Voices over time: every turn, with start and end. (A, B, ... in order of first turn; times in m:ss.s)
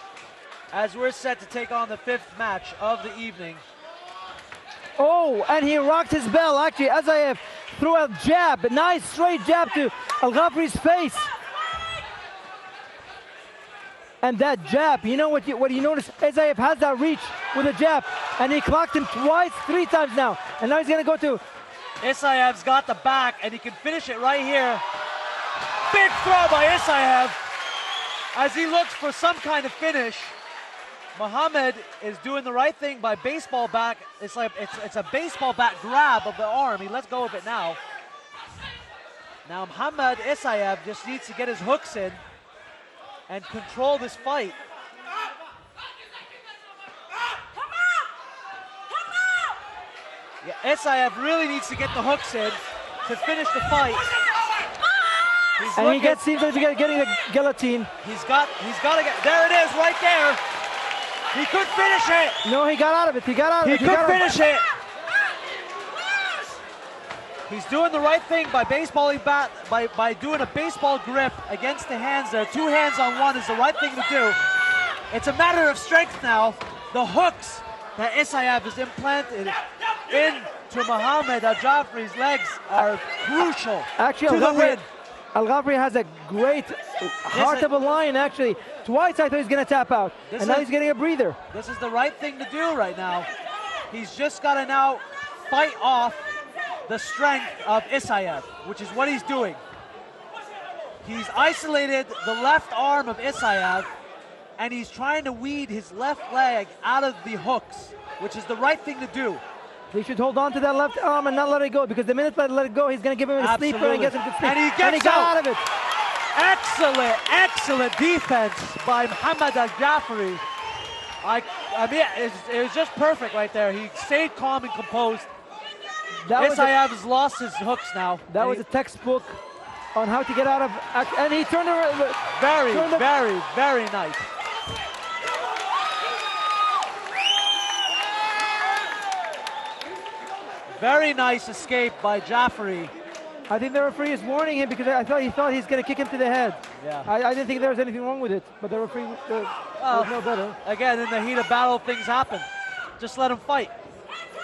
0:00.7-0:03.6 A
0:05.0-0:11.3 B
0:14.2-0:21.4 B
0:22.0-0:24.8 A
0:25.9-0:27.4 A
0:28.3-0:30.3 A
0:31.1-0:37.8 A
0:39.4-0:42.2 A
0:43.3-0:44.6 A
0:50.4-0:54.0 A
0:55.6-0:56.2 A
0:55.7-0:57.9 B
0:58.0-1:00.4 A
1:01.3-1:02.4 A
1:02.4-1:04.2 B
1:03.6-1:04.6 A
1:07.5-1:14.4 A
1:15.1-1:24.8 A
1:24.0-1:24.8 B
1:25.3-1:31.4 B
1:27.3-1:27.7 A
1:30.3-1:30.7 A
1:31.5-1:33.3 A
1:33.9-1:36.3 A
1:36.9-1:39.6 A
1:41.0-1:43.9 A
1:44.6-1:49.4 A
1:49.9-1:55.6 B
1:53.4-1:55.3 A
1:56.3-2:00.4 A
2:01.2-2:05.3 A
2:06.2-2:06.7 B
2:06.4-2:08.6 A
2:08.3-2:09.4 B
2:09.9-2:13.1 B
2:12.3-2:14.2 A
2:20.7-2:22.9 A
2:23.5-2:30.6 B
2:26.8-2:27.1 A
2:29.8-2:32.5 A
2:33.0-2:33.7 A